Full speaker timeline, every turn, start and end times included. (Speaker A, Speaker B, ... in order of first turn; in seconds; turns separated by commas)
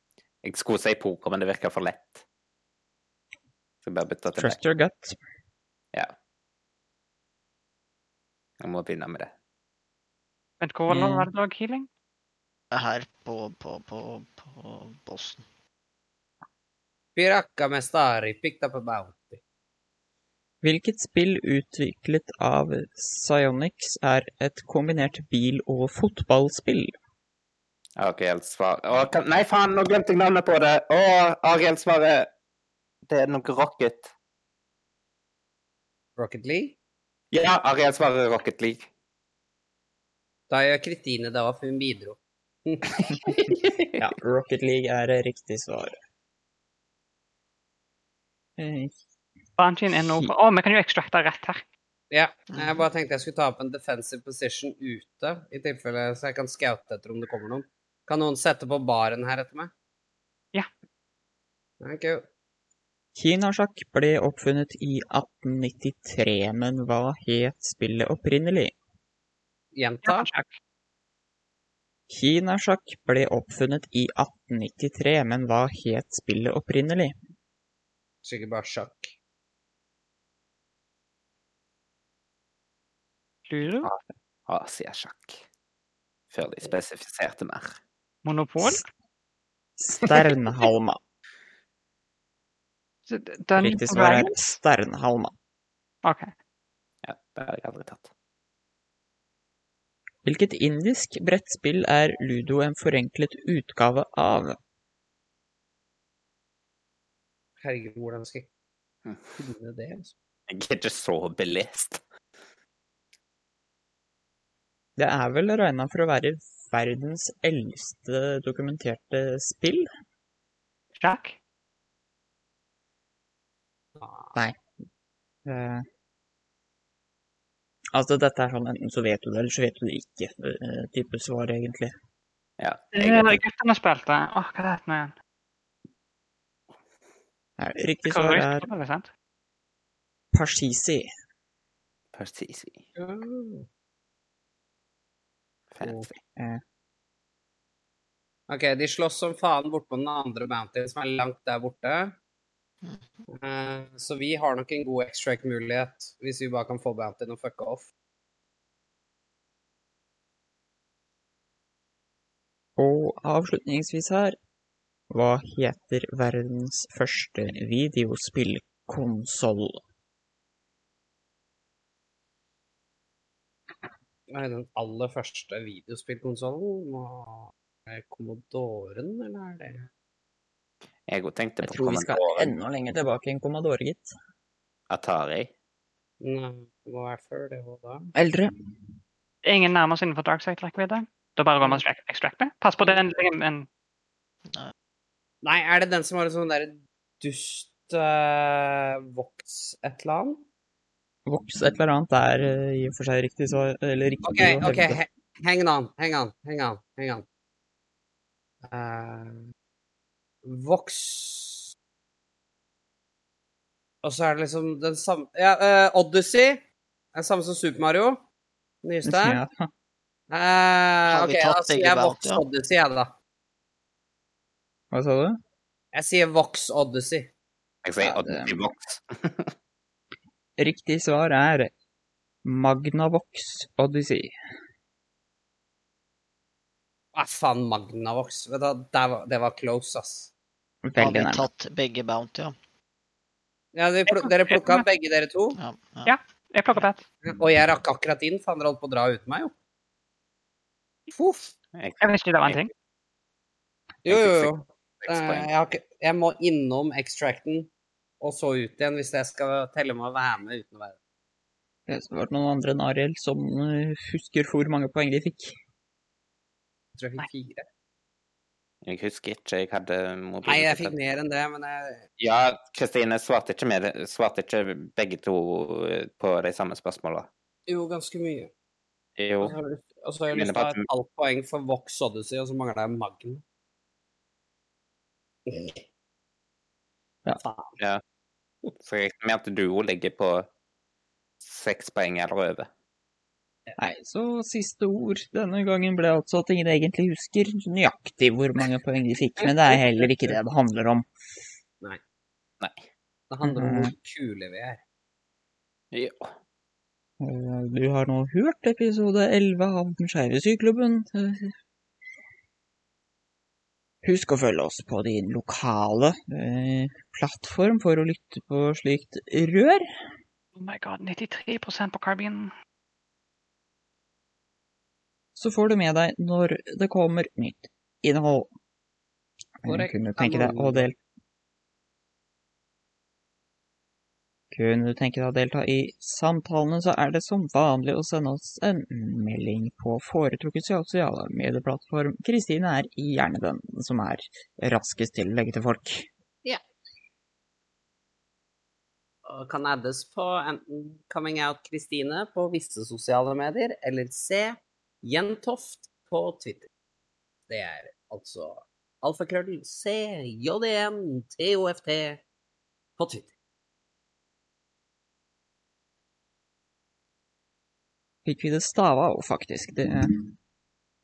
Speaker A: 0.4-2.2, Speaker A: 3.8-4.6, Speaker B: 4.3-5.2, Speaker A: 8.6-9.3, Speaker C: 10.6-11.9, Speaker B: 10.9-11.3, Speaker D: 12.7-15.4, Speaker E: 17.1-19.4, Speaker B: 20.6-26.9, Speaker A: 28.0-32.3, Speaker A: 33.1-34.1, Speaker E: 36.2-36.8, Speaker A: 37.3-38.9, Speaker E: 40.5-42.9, Speaker A: 43.0-43.9, Speaker B: 44.0-45.9, Speaker B: 48.6-49.0, Speaker C: 49.6-51.6, Speaker B: 49.9-50.3, Speaker E: 52.1-59.7, Speaker D: 52.5-52.8, Speaker E: 61.8-62.2, Speaker B: 63.1-68.7, Speaker E: 69.7-70.3, Speaker C: 70.0-70.5, Speaker B: 72.1-77.1, Speaker E: 78.2-79.1, Speaker C: 83.5-83.9, Speaker A: 83.8-85.4, Speaker A: 86.3-87.8, Speaker C: 88.2-88.8, Speaker B: 89.8-91.0, Speaker C: 93.1-94.5, Speaker B: 93.6-95.3, Speaker C: 96.0-96.3, Speaker A: 97.0-98.1, Speaker B: 100.2-104.6, Speaker E: 107.6-108.5, Speaker E: 109.4-110.1, Speaker A: 110.5-112.0, Speaker B: 115.0-119.9, Speaker C: 121.0-121.3, Speaker E: 124.0-124.3, Speaker B: 124.3-124.6, Speaker B: 125.4-125.8, Speaker B: 127.9-131.9, Speaker A: 132.6-133.4, Speaker C: 132.9-135.1, Speaker B: 137.6-138.7, Speaker C: 138.0-139.1, Speaker B: 140.3-141.1, Speaker A: 142.1-142.8, Speaker E: 142.9-143.7, Speaker A: 145.7-146.2, Speaker E: 145.8-146.1, Speaker B: 146.3-146.6, Speaker E: 148.5-152.1, Speaker E: 153.3-157.9, Speaker B: 162.8-164.3, Speaker B: 165.1-169.8, Speaker E: 174.3-179.9, Speaker A: 181.1-182.5, Speaker B: 181.6-184.1, Speaker A: 184.9-185.5, Speaker E: 186.2-188.1, Speaker B: 188.1-188.5, Speaker C: 189.4-193.7, Speaker E: 195.4-200.4, Speaker B: 201.2-205.0, Speaker E: 204.2-207.2, Speaker E: 208.6-209.4, Speaker E: 210.4-211.7, Speaker E: 214.0-216.6, Speaker E: 217.1-218.2, Speaker E: 218.8-219.4, Speaker B: 219.1-219.7, Speaker E: 220.3-223.1, Speaker D: 221.1-222.4, Speaker B: 224.9-225.4, Speaker E: 225.9-227.3, Speaker A: 227.8-229.5, Speaker B: 228.0-228.5, Speaker B: 230.6-231.7, Speaker B: 232.4-234.3, Speaker E: 237.1-240.3, Speaker B: 240.8-241.5, Speaker D: 241.0-242.6, Speaker E: 243.7-245.6, Speaker C: 244.1-244.8, Speaker D: 245.6-246.2, Speaker C: 246.1-247.0, Speaker E: 247.2-249.5, Speaker E: 251.1-251.5, Speaker A: 251.7-252.7, Speaker C: 252.0-252.7, Speaker E: 254.0-257.7, Speaker A: 254.1-255.5, Speaker E: 258.2-260.9, Speaker B: 261.9-265.5, Speaker E: 267.0-267.6, Speaker A: 268.8-271.0, Speaker E: 270.4-272.0, Speaker A: 272.2-277.3, Speaker E: 277.7-278.5, Speaker A: 279.2-279.5, Speaker E: 279.4-283.4, Speaker A: 280.3-280.8, Speaker E: 285.4-285.8, Speaker E: 287.4-287.8, Speaker A: 288.8-290.5, Speaker A: 291.4-292.7, Speaker B: 293.8-301.1, Speaker A: 302.6-302.8, Speaker E: 303.3-304.8, Speaker B: 303.4-303.9, Speaker A: 305.9-306.3, Speaker B: 307.2-311.5, Speaker B: 314.0-319.9, Speaker C: 320.6-322.5, Speaker B: 325.4-328.5, Speaker B: 329.6-330.9, Speaker E: 329.6-330.9, Speaker B: 334.5-346.1, Speaker E: 349.2-356.7, Speaker E: 357.5-362.2, Speaker E: 363.0-363.3, Speaker B: 368.2-370.3